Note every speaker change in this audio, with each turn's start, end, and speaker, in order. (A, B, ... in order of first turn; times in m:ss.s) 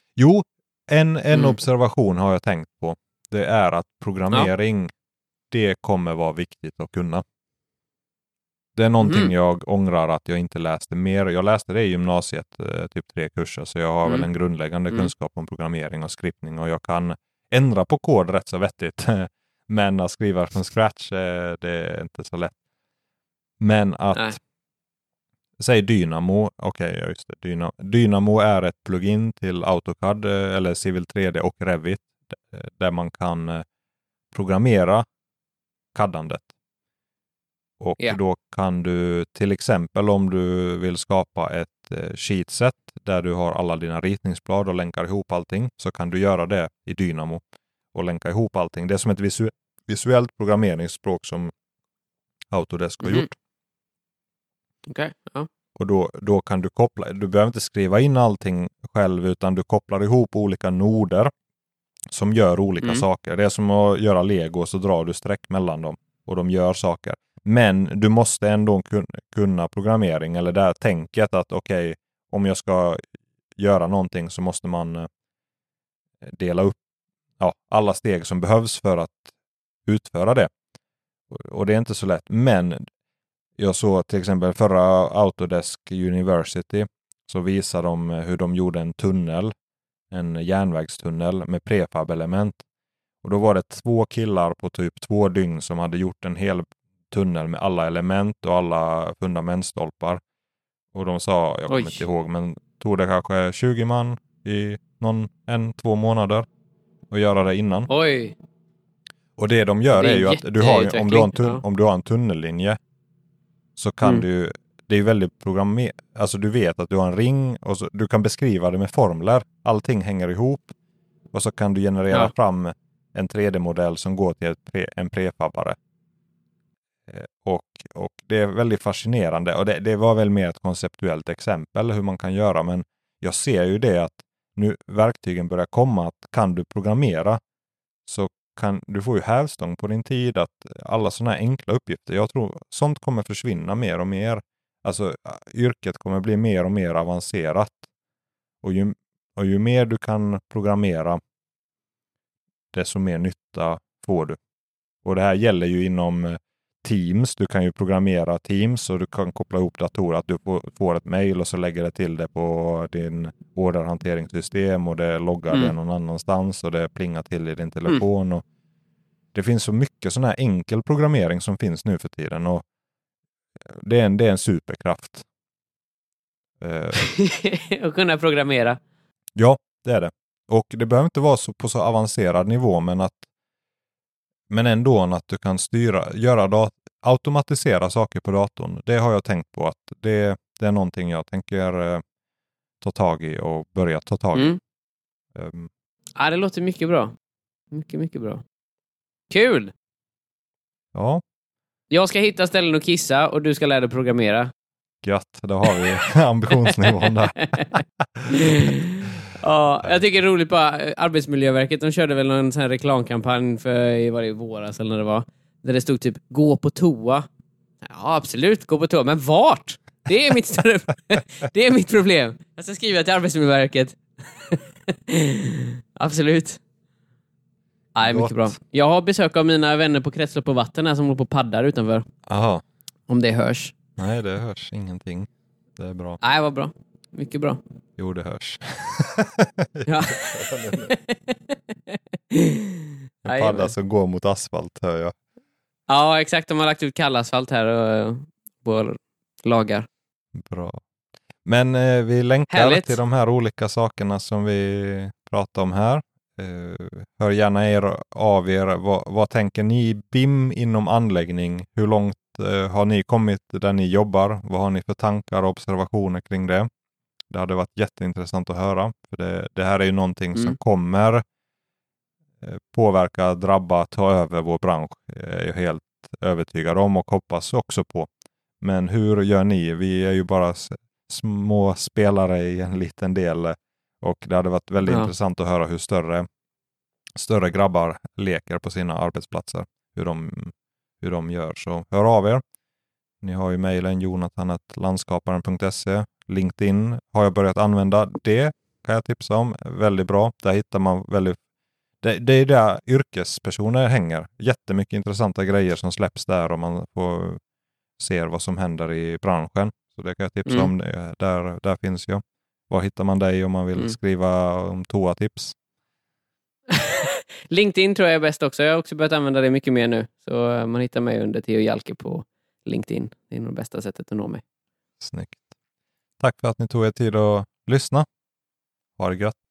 0:00.2-0:04.9 A
0:05.5-0:07.2 A
0:08.8-0:22.6 A
0:09.0-0:09.3 B
0:23.6-0:24.4 A
0:25.6-0:33.6 A
0:34.3-0:35.0 A
0:35.9-0:36.5 A
0:37.8-0:47.4 A
0:47.9-0:51.5 A
0:52.5-0:53.4 A
0:54.9-0:55.5 B
0:55.8-1:01.3 A
1:02.1-1:13.0 A
1:13.6-1:15.1 A
1:16.2-1:16.8 A
1:17.4-1:19.3 A
1:19.9-1:20.5 A
1:21.3-1:22.8 A
1:23.6-1:29.5 A
1:30.1-1:32.6 A
1:33.2-1:40.2 A
1:40.9-1:46.4 A
1:41.7-1:42.0 B
1:47.1-1:47.9 A
1:47.9-1:48.4 B
1:49.4-1:52.8 A
1:49.9-1:51.6 B
1:53.8-2:00.7 A
2:01.3-2:05.8 A
2:07.1-2:17.4 A
2:18.0-2:27.8 A
2:28.6-2:31.2 A
2:32.7-2:34.4 A
2:35.0-2:48.4 A
2:49.3-2:52.6 A
2:53.7-2:55.2 A
2:56.6-2:57.0 A
2:57.0-2:58.8 B
2:59.4-3:03.2 A
3:04.5-3:12.0 A
3:12.8-3:14.5 A
3:15.4-3:15.7 A
3:16.2-3:17.1 B
3:17.7-3:18.4 B
3:19.3-3:19.7 B
3:20.9-3:21.2 A
3:21.9-3:24.5 B
3:25.0-3:28.7 A
3:26.9-3:27.7 B
3:28.3-3:37.3 B
3:37.8-3:46.6 B
3:48.0-3:52.0 B
3:48.0-3:48.5 A
3:52.3-3:52.6 A
3:53.1-3:53.8 B
3:54.0-3:56.2 A
3:56.2-3:57.6 B
3:58.0-4:00.9 A
3:59.9-4:03.7 B
4:03.2-4:05.2 A
4:05.9-4:09.9 B
4:10.3-4:10.8 A
4:11.4-4:26.7 A
4:12.5-4:13.0 B
4:27.3-4:31.2 A
4:32.4-4:38.1 A
4:38.6-4:46.3 A
4:44.8-4:45.1 B
4:47.2-4:52.4 A
4:53.2-5:01.4 A
5:02.0-5:07.4 A
5:08.0-5:15.6 A
5:16.7-5:24.4 B
5:25.0-5:25.4 A
5:26.2-5:28.0 A
5:29.0-5:29.4 A